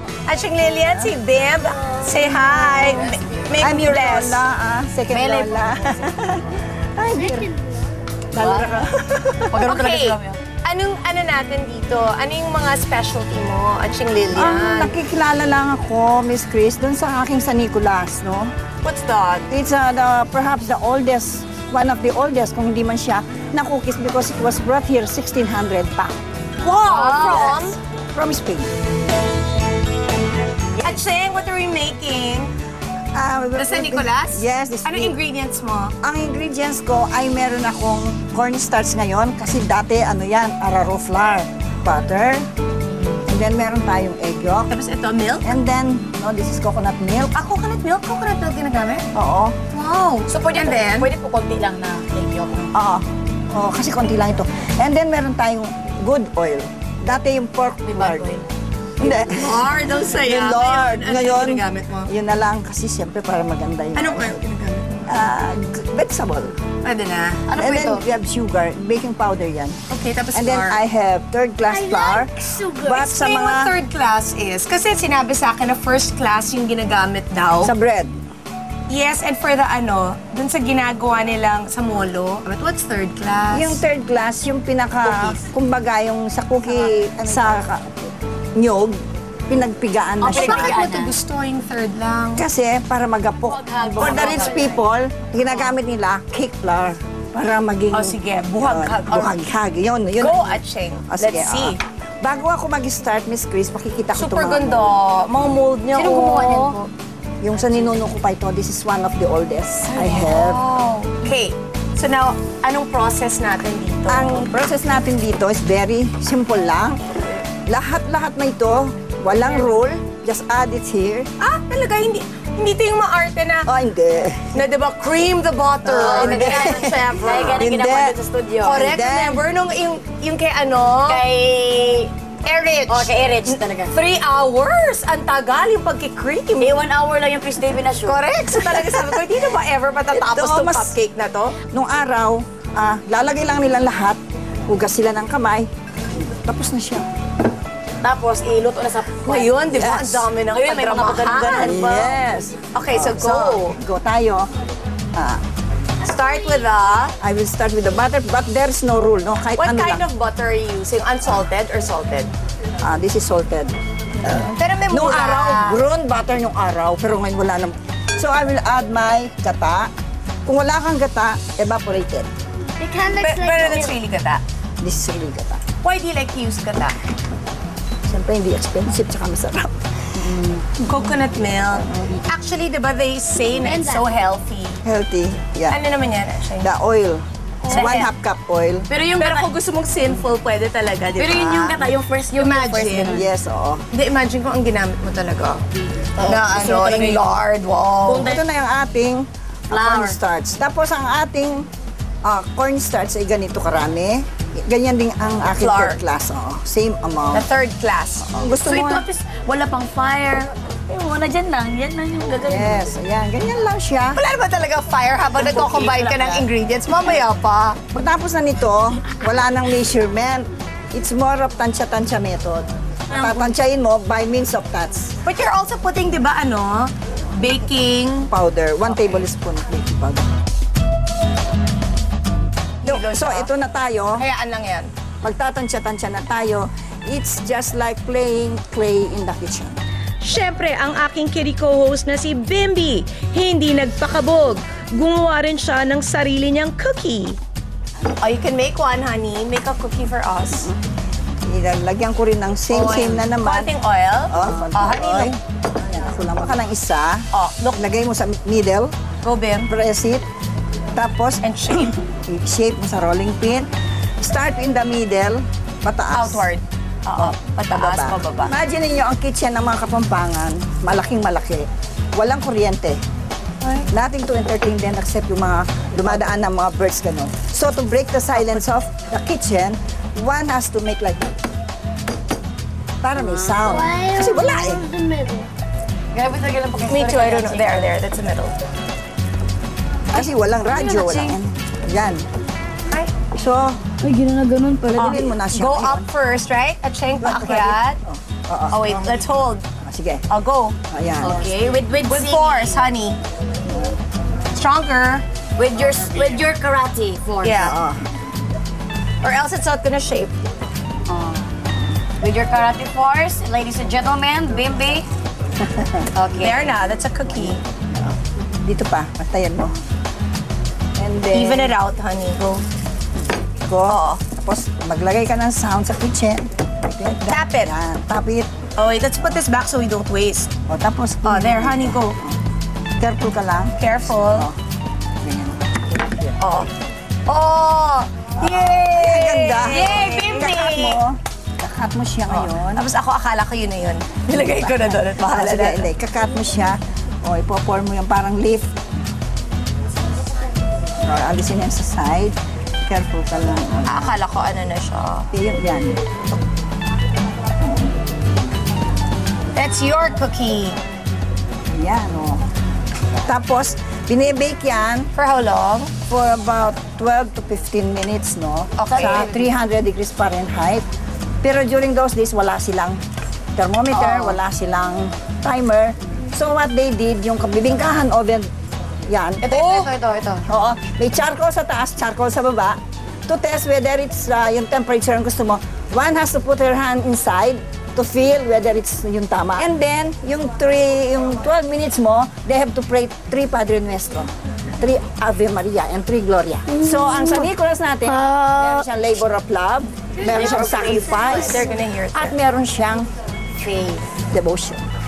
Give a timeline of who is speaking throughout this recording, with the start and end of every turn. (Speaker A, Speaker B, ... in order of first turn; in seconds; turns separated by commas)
Speaker A: 0.2-4.4, Speaker B: 2.6-3.1, Speaker C: 3.6-7.5, Speaker B: 5.1-6.5, Speaker B: 8.3-8.9, Speaker C: 8.3-9.7, Speaker B: 9.5-10.4, Speaker A: 9.5-14.9, Speaker C: 14.3-18.5, Speaker A: 18.8-19.5, Speaker C: 19.5-26.2, Speaker A: 26.6-27.8, Speaker B: 26.9-27.7, Speaker C: 27.0-28.7, Speaker A: 30.8-32.5, Speaker C: 33.1-35.2, Speaker A: 33.5-35.9, Speaker C: 36.0-42.4, Speaker C: 43.2-44.7, Speaker A: 44.7-45.6, Speaker C: 45.4-47.4, Speaker A: 47.3-49.0, Speaker C: 49.1-49.6, Speaker A: 49.7-51.1, Speaker B: 50.3-52.7, Speaker C: 52.7-58.3, Speaker B: 57.8-58.5, Speaker C: 59.0-64.4, Speaker A: 59.0-62.1, Speaker A: 63.9-65.2, Speaker C: 65.1-66.6, Speaker A: 66.8-67.5, Speaker B: 67.5-68.0, Speaker C: 67.5-69.7, Speaker A: 69.9-70.8, Speaker C: 70.3-73.7, Speaker D: 71.8-72.7, Speaker A: 72.8-77.7, Speaker C: 77.6-78.1, Speaker A: 78.9-83.8, Speaker C: 83.5-89.0, Speaker A: 85.0-85.4, Speaker C: 89.5-90.8, Speaker B: 90.2-91.1, Speaker A: 90.2-92.5, Speaker C: 92.3-104.9, Speaker B: 93.4-94.8, Speaker A: 93.8-94.6, Speaker A: 97.9-99.4, Speaker A: 100.2-101.8, Speaker A: 104.1-106.9, Speaker B: 105.9-106.8, Speaker C: 107.4-110.6, Speaker A: 109.8-114.5, Speaker C: 114.1-121.3, Speaker A: 119.3-119.8, Speaker A: 121.4-123.7, Speaker C: 123.7-124.6, Speaker A: 124.5-127.7, Speaker B: 125.8-128.9, Speaker C: 125.9-128.2, Speaker A: 128.6-131.2, Speaker C: 128.8-129.4, Speaker B: 131.0-132.1, Speaker A: 132.4-136.8, Speaker B: 132.9-134.0, Speaker B: 136.6-139.0, Speaker A: 138.0-141.6, Speaker C: 140.2-140.9, Speaker C: 141.7-147.1, Speaker B: 148.0-149.9, Speaker A: 149.2-153.8, Speaker C: 149.8-150.3, Speaker B: 150.5-151.9, Speaker C: 151.4-154.5, Speaker C: 155.1-155.4, Speaker A: 156.0-157.2, Speaker C: 157.2-160.0, Speaker A: 159.6-162.3, Speaker C: 162.8-169.9, Speaker A: 164.2-165.8, Speaker C: 170.4-172.3, Speaker D: 172.8-173.9, Speaker A: 173.1-174.4, Speaker C: 174.8-175.6, Speaker A: 175.8-176.9, Speaker C: 178.1-180.6, Speaker A: 180.8-184.8, Speaker C: 181.8-182.1, Speaker B: 183.4-184.0, Speaker C: 184.8-185.8, Speaker A: 185.7-186.7, Speaker C: 186.6-188.9, Speaker A: 187.7-188.1, Speaker A: 188.9-193.2, Speaker B: 189.0-189.5, Speaker B: 191.1-193.3, Speaker C: 193.1-193.8, Speaker A: 193.9-195.6, Speaker B: 196.2-197.3, Speaker A: 196.2-198.3, Speaker B: 198.1-198.4, Speaker C: 198.2-201.7, Speaker B: 199.7-200.2, Speaker C: 202.2-207.4, Speaker A: 205.6-206.0, Speaker A: 207.3-208.3, Speaker C: 208.2-209.1, Speaker B: 208.6-212.9, Speaker C: 212.4-214.2, Speaker A: 214.2-217.8, Speaker C: 215.4-216.5, Speaker C: 217.9-225.1, Speaker A: 223.1-223.5, Speaker A: 225.2-228.3, Speaker C: 228.3-230.3, Speaker A: 228.8-229.2, Speaker A: 232.8-233.5, Speaker C: 232.8-234.2, Speaker A: 234.2-234.9, Speaker C: 235.2-239.8, Speaker A: 240.2-247.4, Speaker A: 248.2-250.7, Speaker C: 251.5-253.7, Speaker A: 252.7-255.3, Speaker C: 254.3-258.9, Speaker A: 257.3-257.8, Speaker A: 259.2-259.7, Speaker C: 259.7-260.2, Speaker C: 260.9-263.7, Speaker A: 261.4-261.9, Speaker C: 264.2-266.5, Speaker A: 266.1-268.5, Speaker C: 267.1-273.0, Speaker A: 273.6-273.9, Speaker C: 273.9-281.3, Speaker C: 283.0-284.8, Speaker B: 283.2-283.9, Speaker D: 283.7-285.5, Speaker B: 286.1-287.9, Speaker A: 286.9-288.6, Speaker C: 290.1-292.2, Speaker B: 290.2-291.4, Speaker C: 293.4-293.8, Speaker B: 294.0-295.2, Speaker C: 294.9-296.1, Speaker A: 294.9-298.0, Speaker C: 297.2-300.2, Speaker A: 298.7-299.6, Speaker A: 300.3-300.8, Speaker C: 300.9-301.5, Speaker B: 301.2-302.8, Speaker A: 302.0-303.2, Speaker C: 303.6-303.9, Speaker A: 304.5-305.2, Speaker B: 305.6-307.8, Speaker A: 307.4-307.8, Speaker C: 307.6-308.1, Speaker A: 309.2-310.3, Speaker B: 311.1-311.5, Speaker B: 312.2-315.1, Speaker C: 315.6-316.1, Speaker B: 316.1-316.6, Speaker A: 316.4-317.6, Speaker C: 317.5-319.7, Speaker C: 321.0-321.8, Speaker A: 321.3-322.6, Speaker C: 323.6-328.5, Speaker A: 323.9-324.2, Speaker A: 327.2-327.7, Speaker A: 328.8-330.5, Speaker C: 330.7-332.4, Speaker A: 331.2-332.2, Speaker C: 333.0-334.6, Speaker A: 333.8-334.5, Speaker C: 335.2-336.4, Speaker A: 336.4-336.7, Speaker A: 337.3-341.0, Speaker C: 338.4-342.8, Speaker A: 342.3-345.9, Speaker C: 344.3-348.7, Speaker C: 351.0-352.3, Speaker C: 352.9-354.2, Speaker A: 353.9-355.3, Speaker C: 355.3-356.0, Speaker A: 359.5-360.8, Speaker C: 361.7-362.4, Speaker C: 363.2-365.1, Speaker A: 365.1-365.9, Speaker C: 366.1-370.8, Speaker A: 368.8-369.3, Speaker B: 369.0-369.4, Speaker C: 371.4-373.0, Speaker C: 373.6-378.5, Speaker B: 373.9-374.4, Speaker C: 379.1-379.5, Speaker B: 379.4-380.4, Speaker A: 379.4-379.9, Speaker C: 380.4-403.1, Speaker B: 400.2-401.6, Speaker A: 400.2-402.4, Speaker B: 403.6-404.0, Speaker C: 404.3-404.8